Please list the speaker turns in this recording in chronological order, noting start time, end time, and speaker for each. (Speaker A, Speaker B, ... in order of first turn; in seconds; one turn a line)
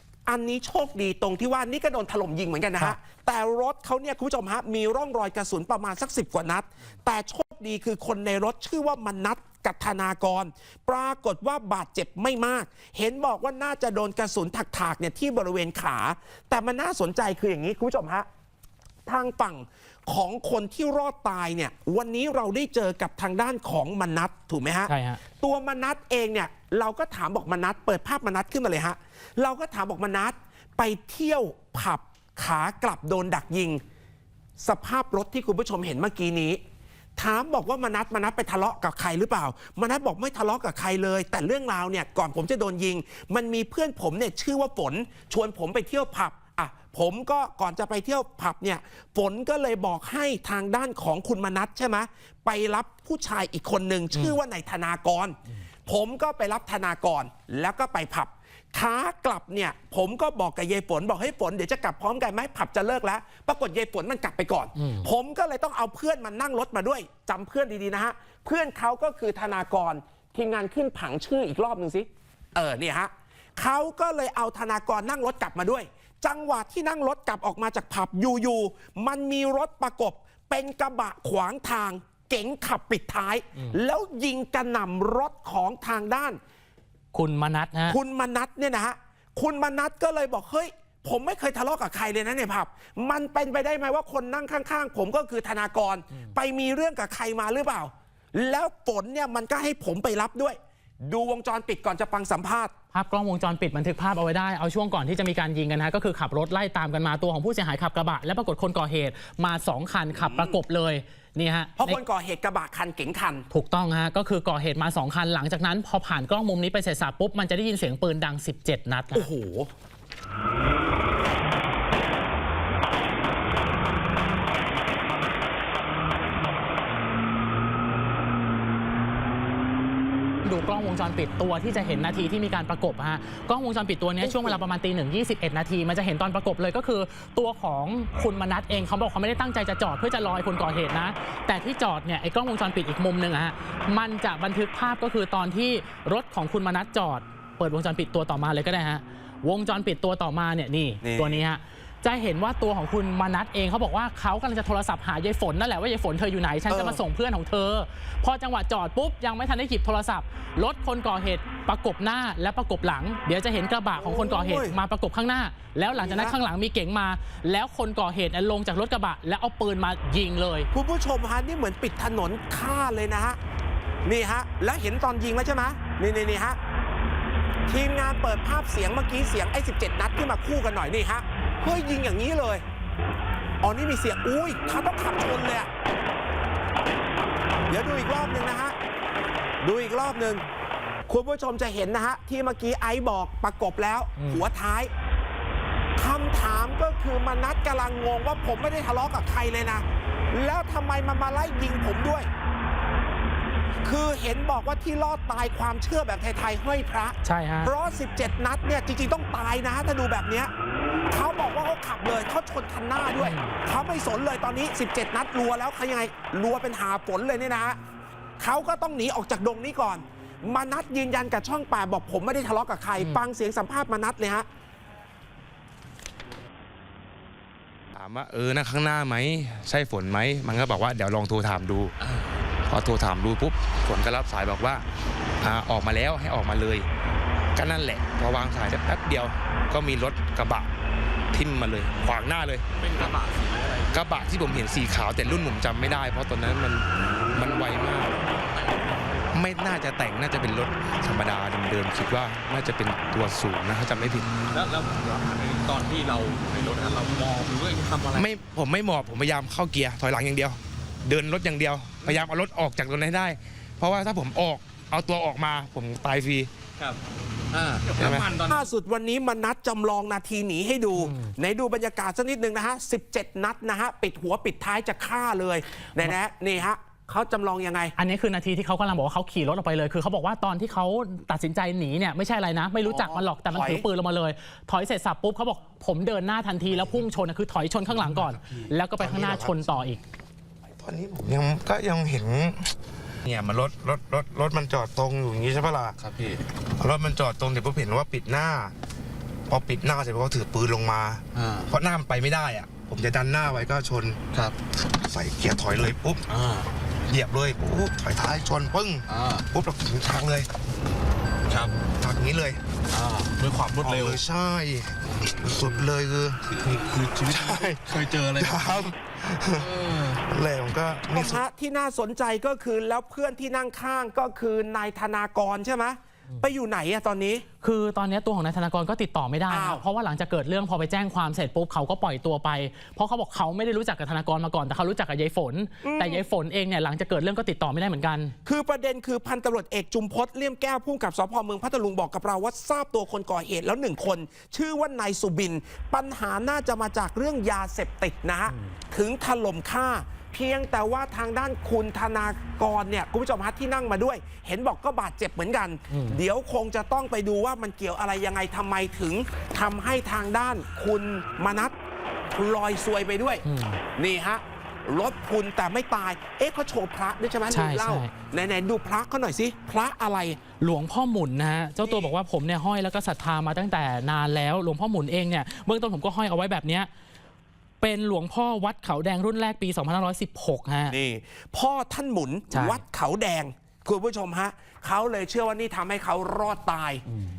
Speaker A: 0.3-18.3
Speaker A: 19.1-33.8
Speaker B: 24.9-25.2
Speaker A: 34.6-36.6
Speaker A: 37.2-86.4
Speaker B: 64.8-65.1
Speaker B: 87.1-88.0
Speaker A: 87.9-102.7
Speaker B: 102.9-112.0
Speaker A: 110.2-110.6
Speaker A: 111.8-113.5
Speaker B: 113.5-119.3
Speaker A: 119.1-119.7
Speaker B: 130.4-170.7
Speaker A: 134.2-134.6
Speaker A: 151.0-151.4
Speaker A: 156.7-157.0
Speaker A: 163.9-164.8
Speaker A: 165.9-166.3
Speaker A: 170.7-173.4
Speaker A: 174.0-176.6
Speaker A: 177.7-182.6
Speaker A: 183.6-185.7
Speaker A: 187.7-188.7
Speaker A: 189.6-190.4
Speaker A: 191.1-194.9
Speaker B: 194.2-194.4
Speaker A: 196.0-202.3
Speaker A: 203.8-210.5
Speaker B: 207.2-207.7
Speaker A: 211.1-217.8
Speaker B: 213.2-213.6
Speaker A: 218.4-224.4
Speaker B: 223.0-223.2
Speaker C: 227.9-231.9
Speaker C: 232.7-234.8
Speaker C: 235.4-236.9
Speaker C: 237.5-240.7
Speaker C: 241.3-242.7
Speaker D: 242.8-244.1
Speaker C: 243.9-248.2
Speaker C: 249.3-254.3
Speaker D: 254.5-258.3
Speaker C: 258.1-266.5
Speaker D: 267.5-268.7
Speaker C: 268.0-268.3
Speaker A: 268.0-277.9
Speaker B: 271.0-271.3
Speaker B: 278.0-290.0
Speaker A: 282.8-283.8
Speaker C: 289.0-289.7
Speaker C: 290.8-296.0
Speaker D: 296.0-296.4
Speaker C: 296.7-298.7
Speaker C: 299.5-304.2
Speaker D: 301.4-301.7
Speaker C: 304.8-306.3
Speaker D: 306.3-306.7
Speaker C: 307.1-310.5
Speaker D: 309.1-309.4
Speaker D: 311.5-311.7
Speaker C: 311.9-312.6
Speaker D: 312.9-314.2
Speaker C: 313.8-321.4
Speaker D: 316.5-318.8
Speaker D: 319.6-320.2
Speaker A: 321.1-327.4
Speaker B: 327.6-338.3
Speaker A: 329.5-329.8
Speaker A: 335.8-336.2
Speaker A: 338.4-361.7
Speaker B: 348.5-348.7
Speaker B: 355.9-356.2
Speaker A: 362.3-370.4
Speaker B: 363.4-363.8
Speaker B: 367.5-368.1
Speaker B: 370.6-376.9
Speaker A: 371.8-372.1
Speaker B: 377.8-380.9
Speaker A: 380.9-387.0
Speaker B: 382.5-382.8